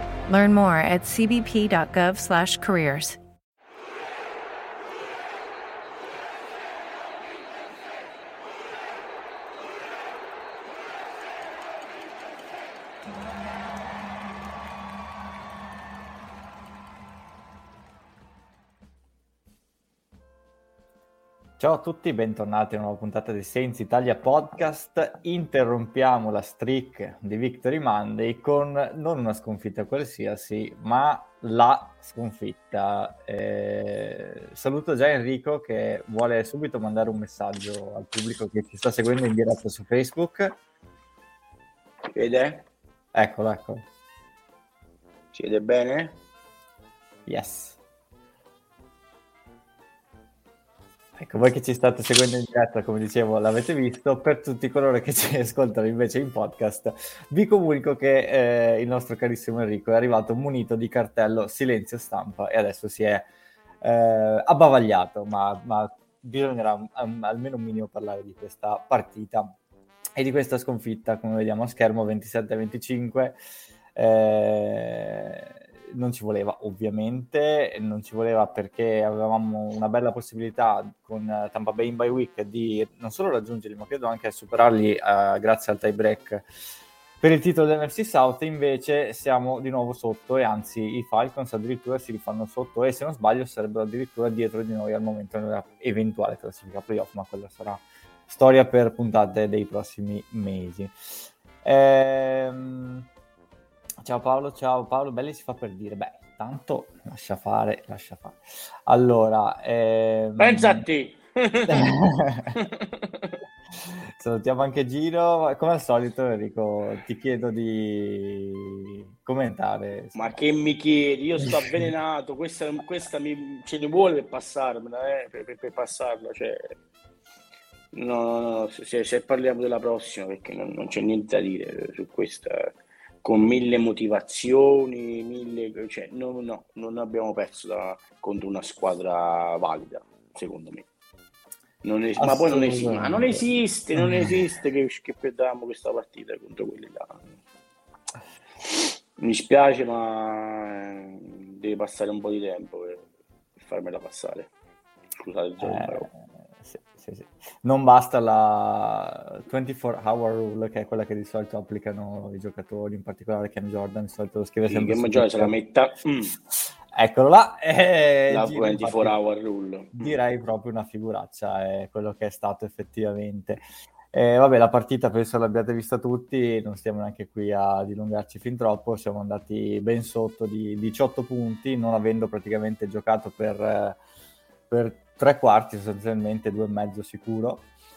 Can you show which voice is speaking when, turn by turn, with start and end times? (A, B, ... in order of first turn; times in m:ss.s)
0:00.3-0:03.2 A
0:21.6-0:40.6 B
0:42.1-0:42.7 C
0:43.2-0:43.8 B
0:45.3-0:46.2 C
0:47.3-0:47.8 B
0:51.2-1:03.3 B
1:03.8-1:09.6 B
1:10.2-1:13.4 B
1:14.0-1:26.4 B
1:27.2-1:40.9 B
1:41.6-1:43.1 B
1:44.0-1:50.8 B
1:50.4-1:52.0 C
1:51.7-1:52.6 B
1:52.5-1:53.4 C
1:53.8-2:00.4 B
2:00.2-2:06.7 C
2:01.4-2:01.8 B
2:07.9-2:20.9 C
2:21.8-2:27.2 C
2:22.2-2:23.4 B
2:24.0-2:24.4 B
2:28.7-2:33.0 C
2:33.6-2:34.5 C
2:35.2-2:36.1 C
2:35.6-2:36.1 B
2:36.6-2:45.5 B
2:44.7-2:46.4 C
2:46.6-2:49.2 B
2:48.3-2:50.2 C
2:50.0-3:04.0 B
3:04.7-3:07.7 B